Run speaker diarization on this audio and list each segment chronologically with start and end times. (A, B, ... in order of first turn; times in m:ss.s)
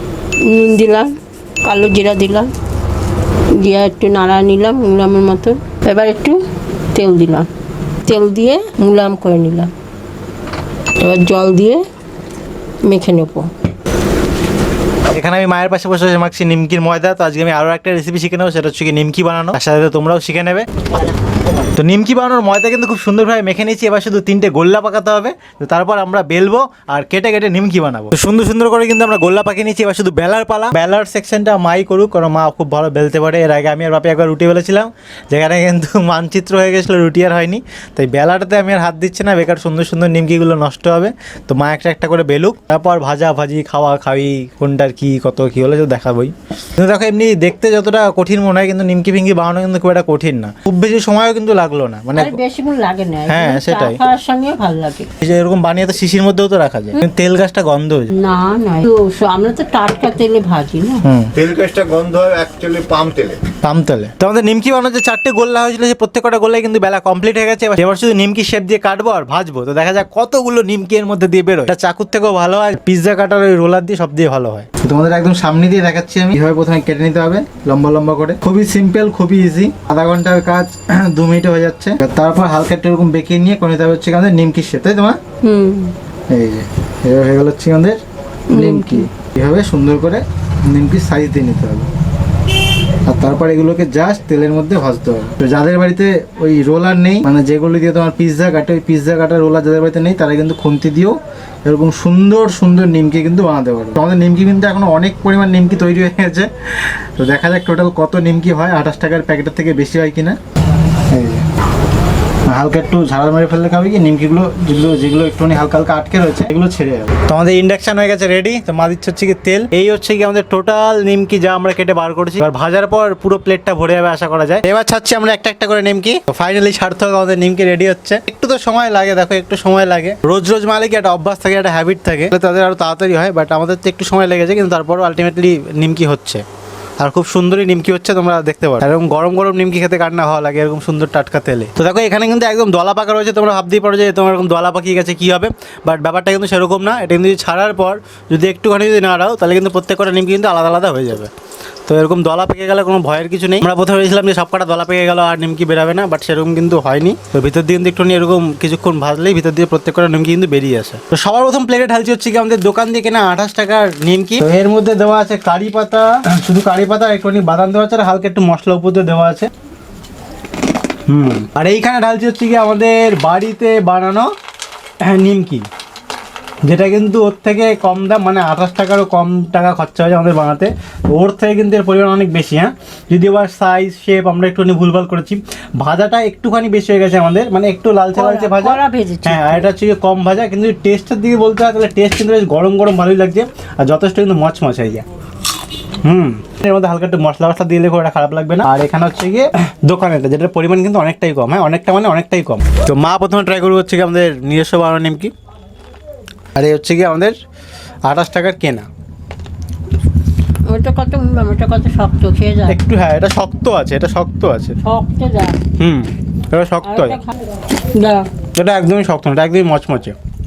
0:00.4-0:01.1 A
0:01.6-0:02.5 A
0:03.5-0:07.5 A
0:08.0-0:09.7 A
0:11.0-0:11.8 A
0:12.8-0:13.5 A
0:15.1-0:20.7 B
0:21.6-0:52.4 B
0:52.1-0:55.1 A
0:53.3-0:54.0 B
0:55.2-0:58.1 B
0:58.1-1:01.0 A
1:01.0-1:01.5 B
1:01.4-1:03.4 C
1:03.5-1:25.2 B
1:25.4-1:26.0 A
1:26.3-1:31.9 B
1:28.5-1:29.1 A
1:33.0-1:50.4 B
1:51.1-1:51.4 B
1:52.5-2:16.4 B
2:17.0-2:31.3 B
2:31.9-2:49.5 B
2:51.1-2:54.3 B
2:55.0-2:55.7 B
2:56.7-3:15.0 B
3:08.2-3:09.7 A
3:16.0-3:25.3 B
3:26.6-3:27.4 B
3:28.1-3:28.9 B
3:30.6-3:32.8 A
3:32.7-3:34.8 B
3:34.8-3:35.6 A
3:35.8-3:37.2 B
3:36.8-3:38.3 A
3:38.5-3:40.2 B